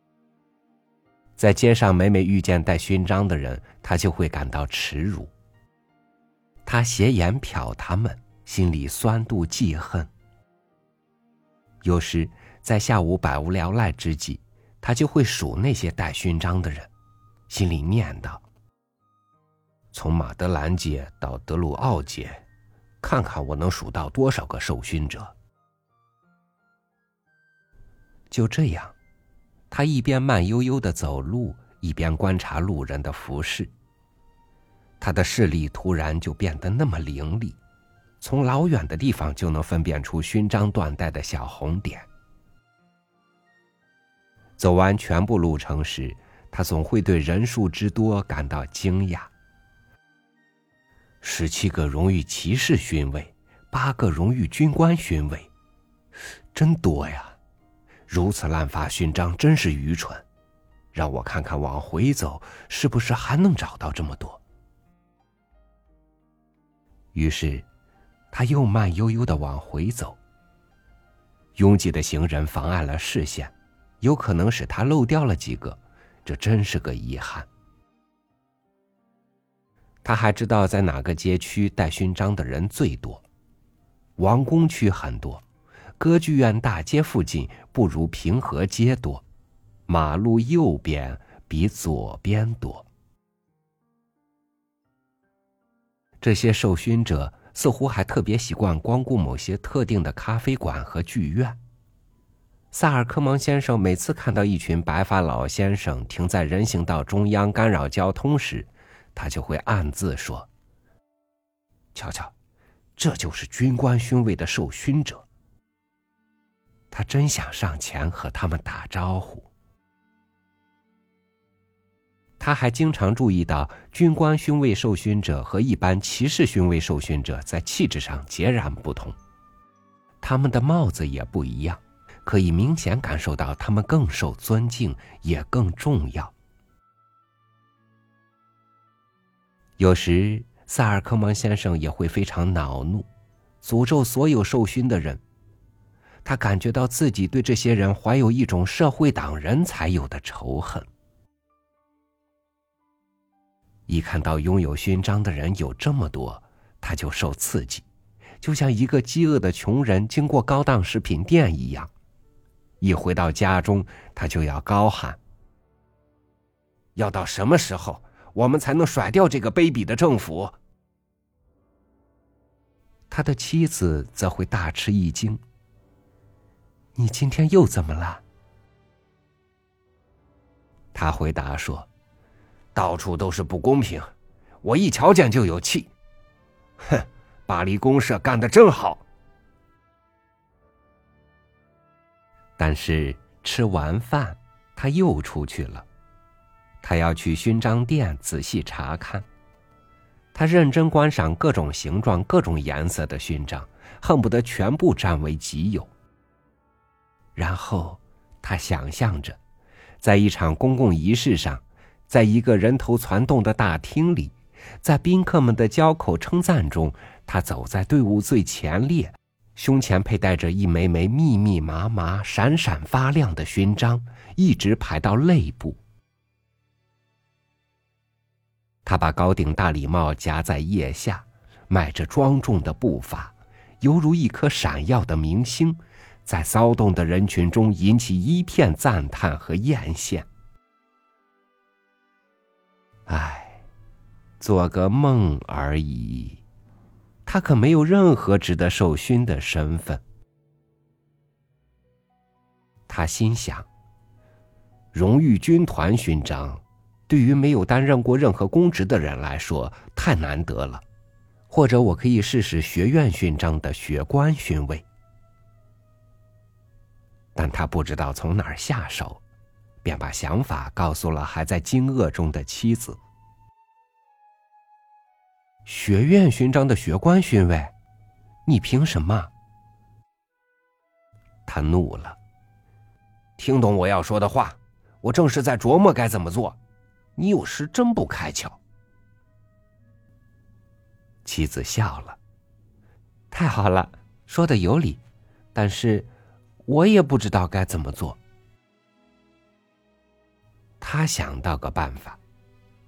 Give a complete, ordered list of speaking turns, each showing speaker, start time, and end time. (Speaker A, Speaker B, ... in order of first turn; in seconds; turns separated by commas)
Speaker A: 1.4-5.3, Speaker A: 6.7-10.1, Speaker A: 11.8-16.9, Speaker A: 17.5-18.4, Speaker A: 19.9-22.4, Speaker A: 23.0-25.3, Speaker A: 28.3-28.9, Speaker A: 29.7-33.7, Speaker A: 35.0-37.6, Speaker A: 38.2-42.1, Speaker A: 44.6-49.3, Speaker A: 51.2-55.5, Speaker A: 56.5-57.4, Speaker A: 58.1-60.2, Speaker A: 60.9-64.4, Speaker A: 67.1-67.7, Speaker A: 68.3-70.2, Speaker A: 71.6-77.5, Speaker A: 80.0-83.2, Speaker A: 84.2-85.4, Speaker A: 86.0-89.2, Speaker A: 89.9-92.9, Speaker A: 96.2-101.6, Speaker A: 102.7-110.5, Speaker A: 112.0-112.3, Speaker A: 113.0-115.2, Speaker A: 116.9-119.5, Speaker A: 122.4-129.2, Speaker A: 130.2-136.3, Speaker A: 139.8-143.1, Speaker A: 143.6-145.2, Speaker A: 146.2-150.9, Speaker A: 153.9-157.9, Speaker A: 158.4-161.9, Speaker A: 162.8-165.2, Speaker A: 166.9-170.6, Speaker A: 173.1-175.4, Speaker A: 176.9-178.2, Speaker A: 180.9-181.9, Speaker A: 182.8-184.1, Speaker A: 184.6-185.9, Speaker A: 186.8-189.0, Speaker A: 192.6-195.9, Speaker A: 196.8-199.3, Speaker A: 200.3-205.9, Speaker A: 207.3-209.4, Speaker A: 210.0-225.8, Speaker A: 228.8-240.3, Speaker A: 243.1-243.6, Speaker A: 244.4-246.4, Speaker A: 247.2-250.0, Speaker A: 252.9-253.7, Speaker A: 254.9-260.8, Speaker A: 261.5-264.8, Speaker A: 267.4-269.2, Speaker A: 269.8-273.0, Speaker A: 275.6-277.7, Speaker A: 278.5-279.3, Speaker A: 281.5-282.2, Speaker A: 283.4-286.6, Speaker A: 287.2-288.6, Speaker A: 291.2-292.2, Speaker A: 293.3-295.0, Speaker A: 295.5-296.1, Speaker A: 296.7-298.2, Speaker A: 300.8-302.2